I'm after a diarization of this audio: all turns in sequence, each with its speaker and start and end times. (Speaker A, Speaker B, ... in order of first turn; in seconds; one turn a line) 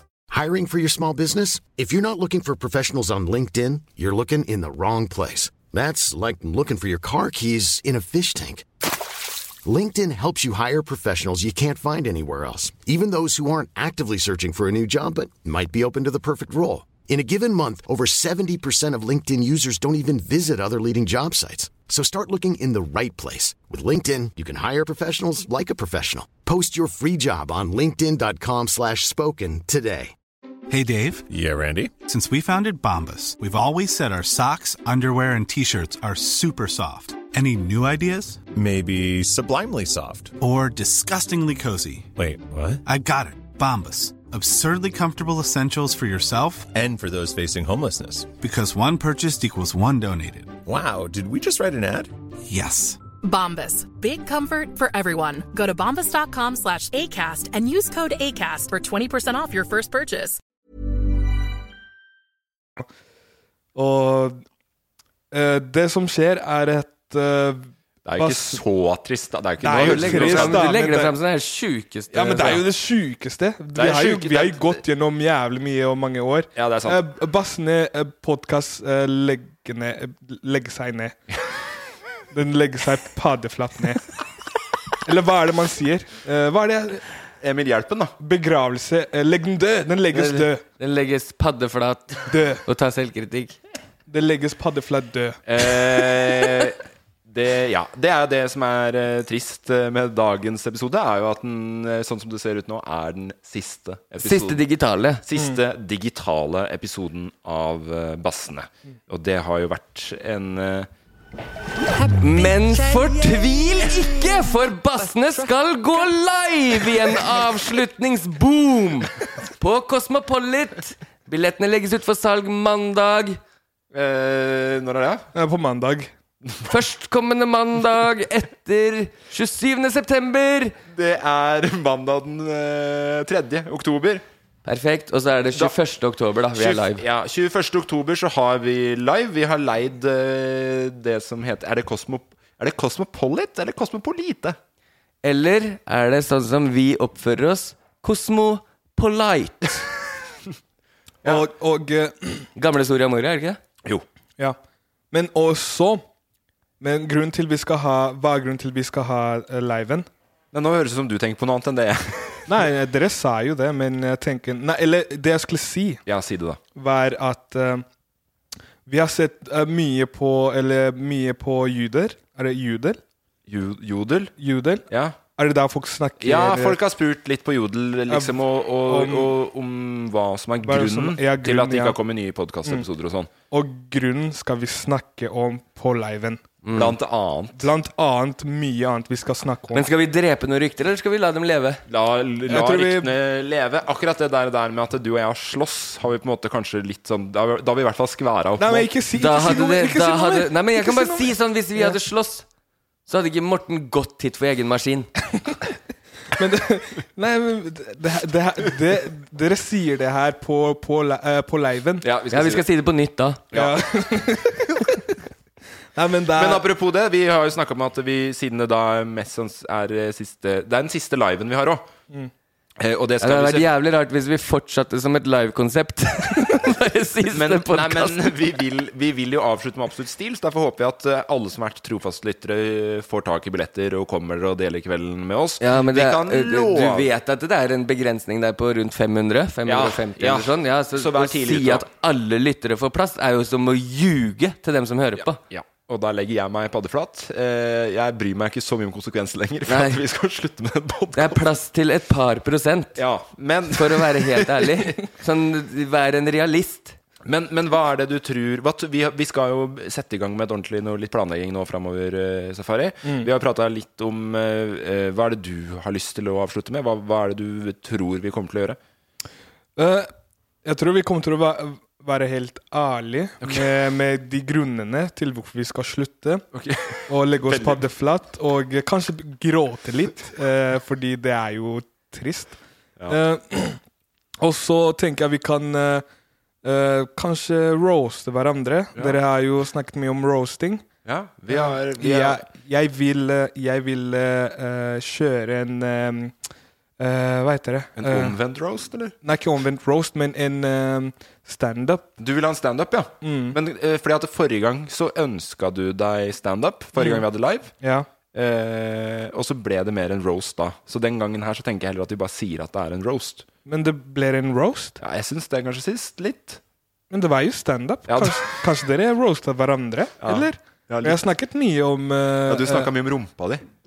Speaker A: 0.3-8.7
Speaker A: 9.6-30.1
Speaker B: 30.7-31.2
Speaker C: 31.3-31.9
Speaker B: 32.0-38.4
Speaker C: 38.5-40.3
Speaker B: 40.4-42.1
Speaker C: 42.1-42.8
Speaker B: 42.8-46.7
Speaker C: 46.7-48.3
Speaker B: 48.4-50.5
Speaker C: 50.6-52.1
Speaker B: 52.5-53.0
Speaker D: 53.2-60.4
Speaker E: 63.7-64.4
Speaker E: 65.3-68.6
Speaker F: 68.0-70.7
Speaker E: 69.6-71.1
Speaker G: 69.6-72.6
Speaker E: 72.1-81.2
Speaker F: 73.8-74.8
Speaker F: 76.5-77.0
Speaker E: 82.3-84.0
Speaker E: 85.0-87.0
Speaker F: 87.4-88.1
Speaker E: 88.2-90.6
Speaker G: 90.1-93.6
Speaker E: 92.3-92.6
Speaker E: 94.1-95.4
Speaker F: 95.5-104.6
Speaker G: 104.2-105.2
Speaker F: 105.2-110.9
Speaker G: 112.1-123.4
Speaker F: 123.9-125.3
Speaker E: 125.3-126.1
Speaker G: 126.7-130.8
Speaker F: 130.9-134.2
Speaker G: 134.6-137.0
Speaker F: 136.5-144.6
Speaker G: 145.2-149.9
Speaker E: 151.2-152.5
Speaker G: 152.6-153.6
Speaker E: 155.1-156.0
Speaker E: 156.8-160.1
Speaker F: 160.5-162.5
Speaker E: 162.5-166.0
Speaker F: 166.1-166.6
Speaker E: 166.8-167.8
Speaker E: 168.8-173.0
Speaker F: 173.5-174.3
Speaker E: 174.4-174.8
Speaker F: 174.9-175.2
Speaker E: 175.4-176.8
Speaker F: 176.2-183.3
Speaker E: 178.1-178.3
Speaker E: 178.9-179.3
Speaker E: 180.6-182.0
Speaker E: 183.5-186.4
Speaker G: 186.6-186.9
Speaker F: 186.7-187.7
Speaker E: 187.6-189.8
Speaker G: 189.7-191.8
Speaker F: 191.9-198.9
Speaker E: 192.5-193.1
Speaker E: 198.6-201.9
Speaker G: 199.2-202.4
Speaker G: 203.1-205.1
Speaker E: 206.3-212.1
Speaker F: 212.0-212.7
Speaker G: 212.3-213.4
Speaker F: 213.5-213.8
Speaker E: 213.5-215.0
Speaker E: 215.9-216.6
Speaker F: 216.3-221.8
Speaker F: 222.8-223.7
Speaker G: 223.2-228.3
Speaker F: 227.3-237.1
Speaker G: 235.6-245.4
Speaker F: 239.7-241.8
Speaker F: 245.2-251.4
Speaker G: 249.7-250.0
Speaker G: 251.1-253.0
Speaker F: 253.0-254.7
Speaker G: 253.7-257.0
Speaker F: 257.2-268.8
Speaker E: 269.8-270.1
Speaker E: 270.6-276.4
Speaker F: 273.4-273.7
Speaker F: 276.5-277.8
Speaker E: 277.1-282.6
Speaker E: 283.1-283.8
Speaker E: 284.4-286.0
Speaker E: 286.6-290.8
Speaker F: 291.0-292.4
Speaker E: 291.5-296.3
Speaker E: 297.0-298.3
Speaker F: 298.0-299.1
Speaker E: 299.2-302.1
Speaker F: 302.2-307.7
Speaker E: 303.2-303.6
Speaker E: 307.0-307.2
Speaker E: 307.8-308.1
Speaker F: 308.3-313.4
Speaker E: 313.6-315.0
Speaker F: 315.0-316.6
Speaker E: 317.1-322.9
Speaker F: 318.1-318.5
Speaker F: 320.2-321.2
Speaker F: 322.5-323.6